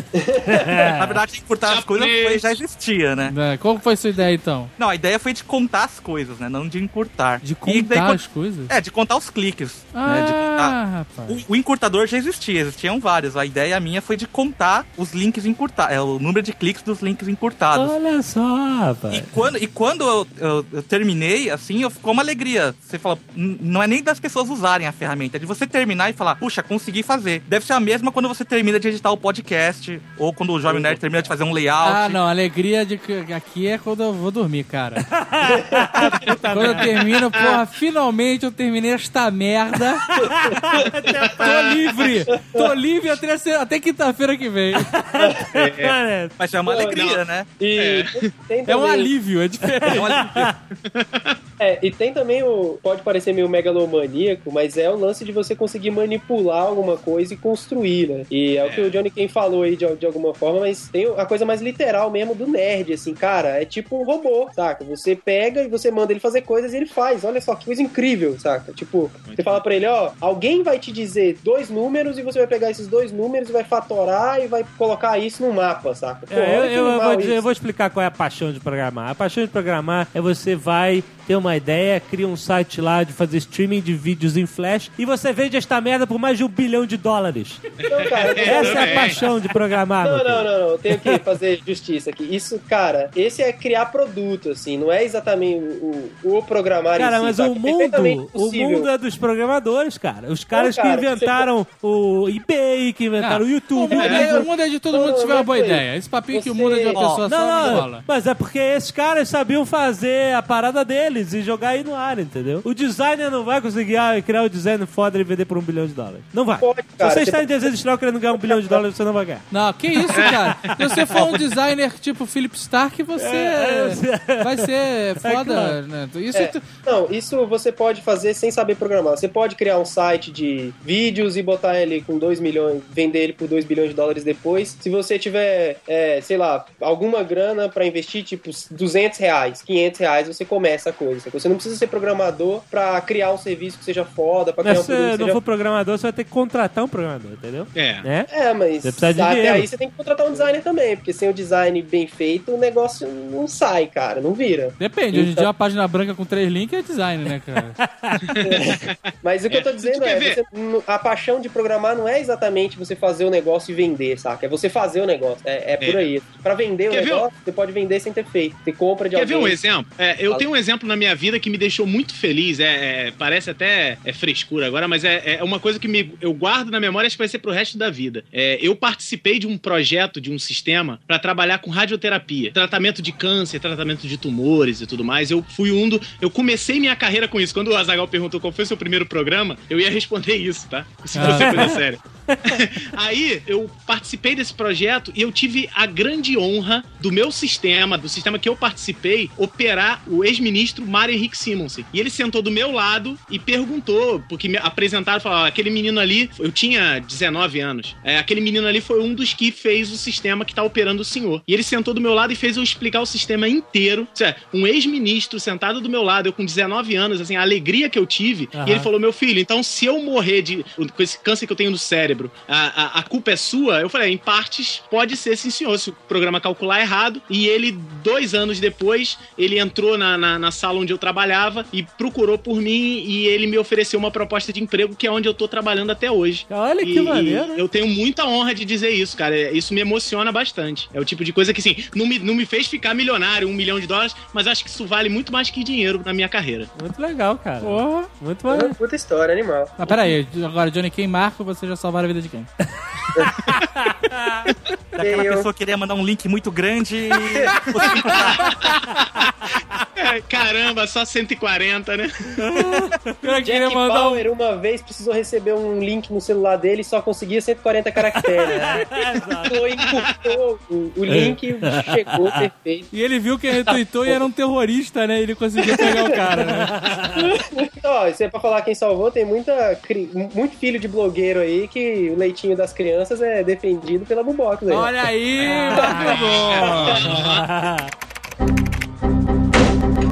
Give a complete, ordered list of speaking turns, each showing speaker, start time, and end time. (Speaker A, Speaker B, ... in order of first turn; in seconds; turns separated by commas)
Speaker A: 0.1-0.9, Speaker B: 0.4-1.2, Speaker C: 1.0-3.4, Speaker D: 1.6-2.5, Speaker E: 3.2-4.7, Speaker C: 4.8-10.8, Speaker E: 7.4-8.7, Speaker E: 9.9-11.4, Speaker C: 11.3-17.9, Speaker B: 17.7-19.4, Speaker C: 19.1-32.2, Speaker B: 30.7-31.0, Speaker E: 31.8-35.1, Speaker B: 35.1-37.0, Speaker E: 36.5-40.0, Speaker D: 37.3-37.6, Speaker B: 40.1-41.8, Speaker A: 40.2-41.3, Speaker D: 41.2-41.9, Speaker E: 41.4-44.9, Speaker B: 44.8-46.4, Speaker A: 45.2-45.5, Speaker D: 45.5-46.0, Speaker C: 46.4-47.5, Speaker A: 46.6-47.0, Speaker D: 46.9-47.2, Speaker A: 47.6-49.1, Speaker D: 47.7-48.3, Speaker E: 48.7-50.2, Speaker B: 49.9-50.5, Speaker C: 49.9-50.5, Speaker D: 50.9-51.4, Speaker A: 51.6-77.4, Speaker D: 58.6-59.0, Speaker D: 69.2-69.6, Speaker B: 76.3-91.2, Speaker D: 87.8-89.2, Speaker A: 87.9-89.3, Speaker A: 90.0-98.9, Speaker B: 97.0-104.4, Speaker A: 100.5-101.5, Speaker E: 103.2-108.0, Speaker A: 104.0-107.0, Speaker C: 106.9-107.2, Speaker B: 107.3-119.5, Speaker A: 116.6-117.8, Speaker A: 118.3-118.8, Speaker E: 119.5-126.7, Speaker D: 120.1-120.7, Speaker C: 121.1-121.4, Speaker B: 123.2-124.7, Speaker B: 125.2-125.8, Speaker A: 126.3-145.4, Speaker B: 144.6-148.3, Speaker D: 147.8-148.1, Speaker A: 148.3-155.5, Speaker B: 148.8-149.7, Speaker E: 154.8-157.8, Speaker B: 157.8-158.2, Speaker D: 158.2-158.9, Speaker A: 158.4-169.6, Speaker D: 159.5-160.4, Speaker D: 165.8-166.1, Speaker D: 166.9-167.3, Speaker D: 169.1-246.7, Speaker E: 191.1-191.7, Speaker B: 191.2-192.6, Speaker B: 218.5-218.9, Speaker B: 236.5-237.6, Speaker B: 246.8-248.8, Speaker E: 247.6-248.1, Speaker A: 248.5-249.8, Speaker E: 249.8-252.5, Speaker B: 253.5-254.5, Speaker C: 255.0-258.6, Speaker A: 255.0-255.5, Speaker A: 257.2-257.6, Speaker D: 257.7-258.8, Speaker D: 260.0-262.5, Speaker B: 262.4-263.1, Speaker E: 263.2-264.2, Speaker A: 263.4-272.9, Speaker B: 268.1-269.6, Speaker D: 269.9-270.1, Speaker B: 271.1-272.4, Speaker E: 272.9-276.7, Speaker A: 273.5-274.2, Speaker A: 275.7-276.2, Speaker B: 276.5-277.3, Speaker A: 277.2-285.1, Speaker E: 284.7-287.1, Speaker B: 285.5-287.9, Speaker A: 285.7-286.2, Speaker D: 286.0-287.5